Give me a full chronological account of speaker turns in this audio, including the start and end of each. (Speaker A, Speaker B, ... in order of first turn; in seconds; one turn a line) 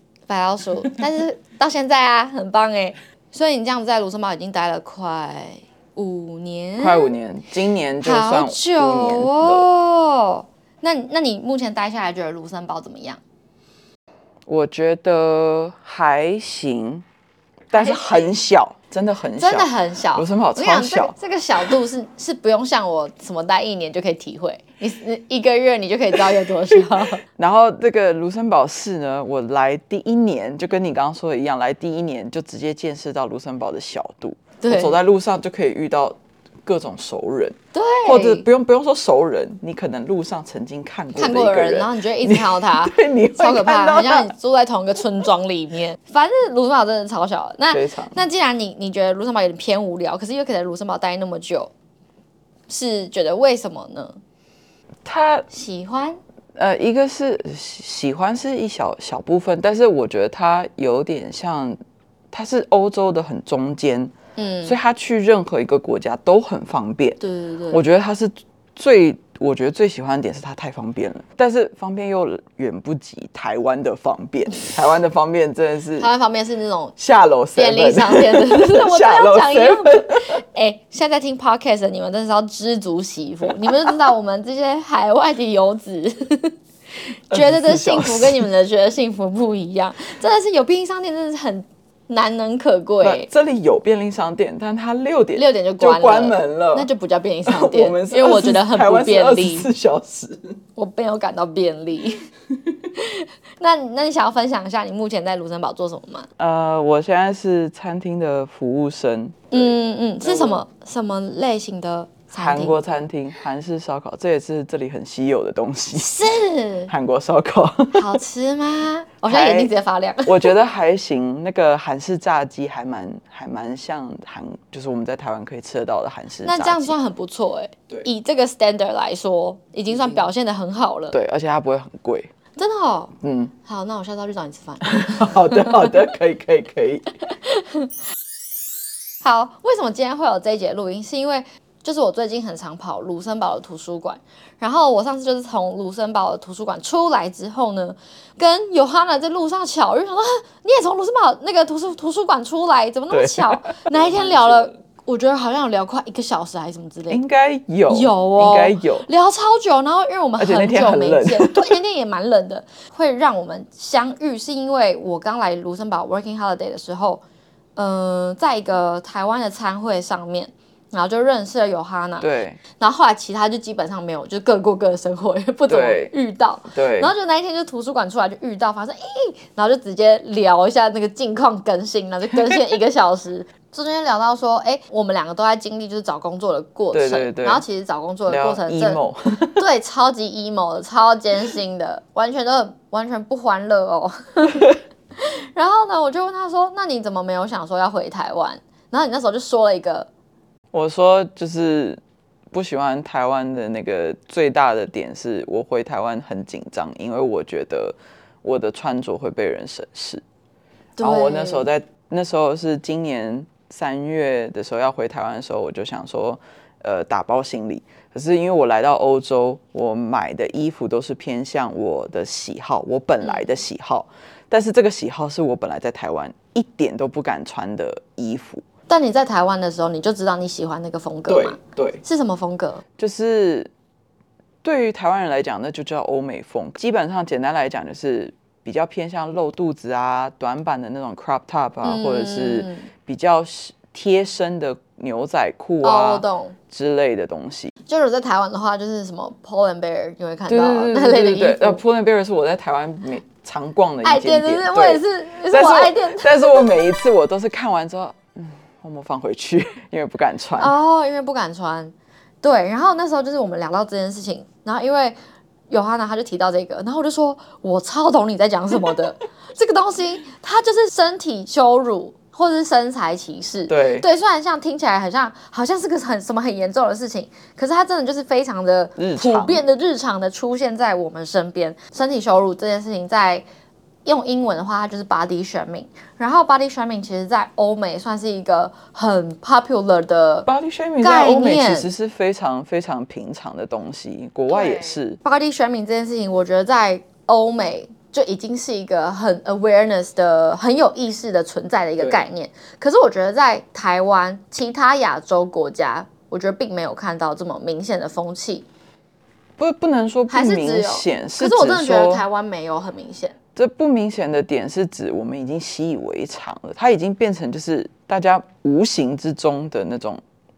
Speaker A: 0.3-7.1
Speaker B: 6.8-9.7
Speaker A: 8.0-13.2
Speaker B: 14.5-17.1
Speaker B: 17.7-21.7
Speaker A: 17.7-18.3
Speaker A: 19.4-27.2
Speaker B: 27.4-44.3
Speaker A: 34.6-35.0
Speaker A: 37.7-38.5
Speaker A: 41.2-51.7
Speaker B: 47.7-48.2
Speaker A: 52.7-54.2
Speaker B: 55.0-55.5
Speaker A: 55.5-56.2
Speaker B: 56.5-61.8
Speaker B: 62.3-76.1
Speaker A: 64.4-64.8
Speaker A: 67.2-67.8
Speaker A: 76.0-77.0
Speaker B: 77.0-80.4
Speaker A: 77.6-86.5
Speaker B: 83.6-84.1
Speaker B: 87.3-88.5
Speaker A: 87.3-93.3
Speaker B: 93.0-96.9
Speaker A: 95.4-99.7
Speaker B: 97.5-100.6
Speaker A: 100.8-102.3
Speaker A: 103.0-106.3
Speaker B: 106.4-110.6
Speaker A: 109.5-112.8
Speaker B: 112.3-116.2
Speaker A: 116.0-116.9
Speaker B: 116.9-118.2
Speaker A: 117.9-120.5
Speaker B: 119.2-119.7
Speaker B: 120.3-127.0
Speaker A: 126.5-131.2
Speaker B: 129.9-130.2
Speaker B: 131.1-132.3
Speaker A: 132.6-133.1
Speaker B: 133.2-133.5
Speaker A: 133.7-135.9
Speaker B: 134.8-137.1
Speaker A: 137.2-137.9
Speaker A: 139.2-157.2
Speaker B: 153.1-154.7
Speaker B: 157.1-159.1
Speaker A: 157.9-167.2
Speaker B: 160.4-161.8
Speaker A: 167.8-189.0
Speaker B: 172.2-172.6
Speaker B: 175.7-176.1
Speaker B: 176.7-177.1
Speaker B: 186.9-187.7
Speaker B: 188.3-189.6
Speaker A: 189.6-200.1
Speaker B: 200.7-202.0
Speaker B: 202.5-210.2
Speaker A: 211.0-211.7
Speaker B: 211.0-228.6
Speaker A: 223.2-223.5
Speaker A: 228.9-232.8
Speaker B: 231.3-232.0
Speaker B: 233.0-233.7
Speaker B: 234.6-247.7
Speaker A: 241.8-242.9
Speaker A: 245.8-246.6
Speaker A: 247.9-251.8
Speaker B: 250.5-260.8
Speaker A: 254.0-256.7
Speaker A: 260.6-265.2
Speaker A: 265.7-283.4
Speaker B: 273.7-274.1
Speaker B: 279.0-279.6
Speaker A: 284.1-290.5
Speaker B: 290.5-295.2
Speaker A: 291.0-291.9
Speaker A: 294.5-308.7
Speaker B: 302.0-302.2
Speaker B: 309.6-312.2
Speaker A: 310.3-313.4
Speaker B: 313.6-320.2